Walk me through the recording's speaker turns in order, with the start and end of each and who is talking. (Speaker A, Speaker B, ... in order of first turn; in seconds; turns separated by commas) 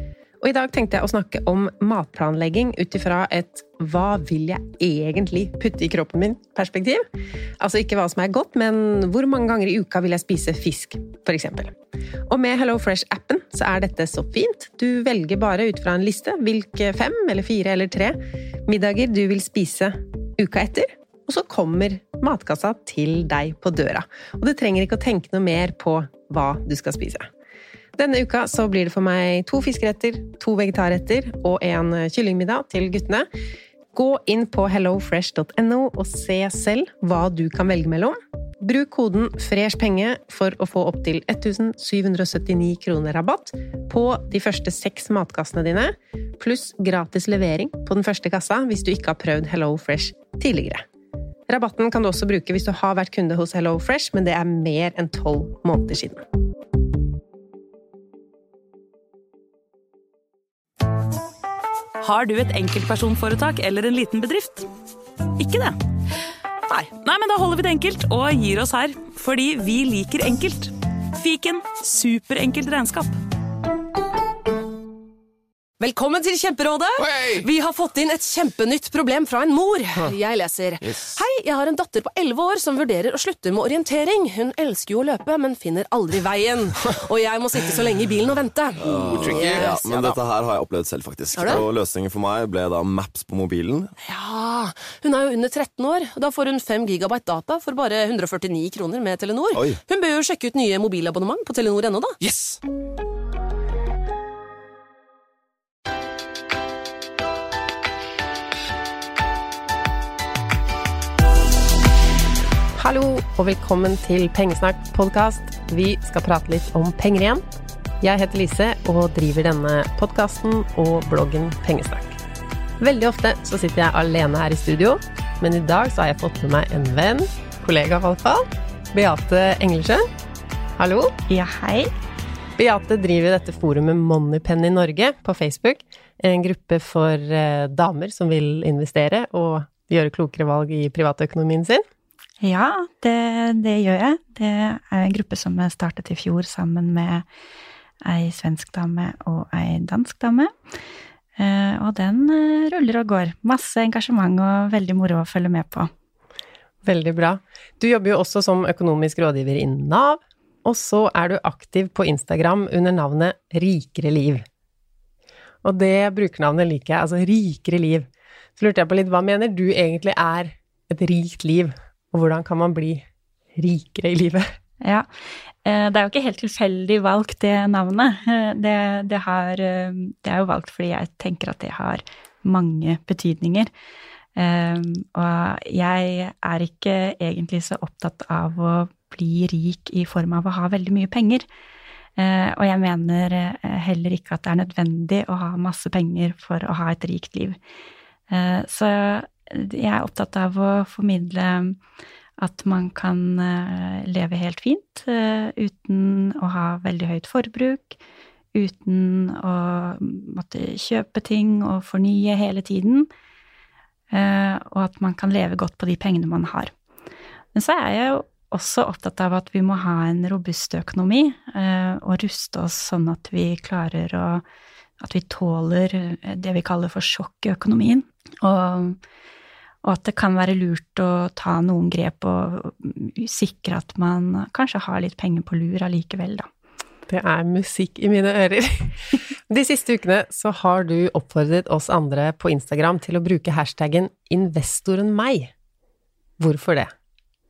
Speaker A: 0.4-7.0, Speaker A: 7.6-11.8, Speaker A: 12.3-27.3, Speaker A: 28.0-33.3, Speaker A: 33.9-50.8, Speaker A: 51.5-56.2, Speaker B: 62.0-64.7, Speaker B: 65.4-65.8, Speaker B: 66.7-73.2, Speaker C: 75.8-90.2, Speaker D: 88.8-93.9, Speaker C: 91.3-91.6, Speaker C: 94.0-102.5, Speaker A: 112.8-117.4, Speaker A: 118.0-122.2, Speaker A: 122.8-130.1, Speaker A: 130.8-131.2, Speaker E: 131.3-131.9, Speaker A: 132.6-141.8, Speaker E: 142.4-147.2, Speaker E: 148.0-150.5, Speaker E: 151.4-155.9, Speaker A: 156.8-164.4, Speaker A: 165.6-174.5, Speaker E: 174.8-175.1, Speaker E: 175.6-183.7, Speaker E: 184.3-191.4, Speaker E: 192.2-197.6, Speaker E: 198.3-201.8, Speaker E: 202.4-208.0, Speaker E: 208.5-213.1, Speaker E: 214.1-216.7, Speaker E: 217.6-224.4, Speaker E: 225.0-229.0, Speaker E: 229.8-236.5, Speaker A: 237.1-245.5, Speaker A: 246.4-246.9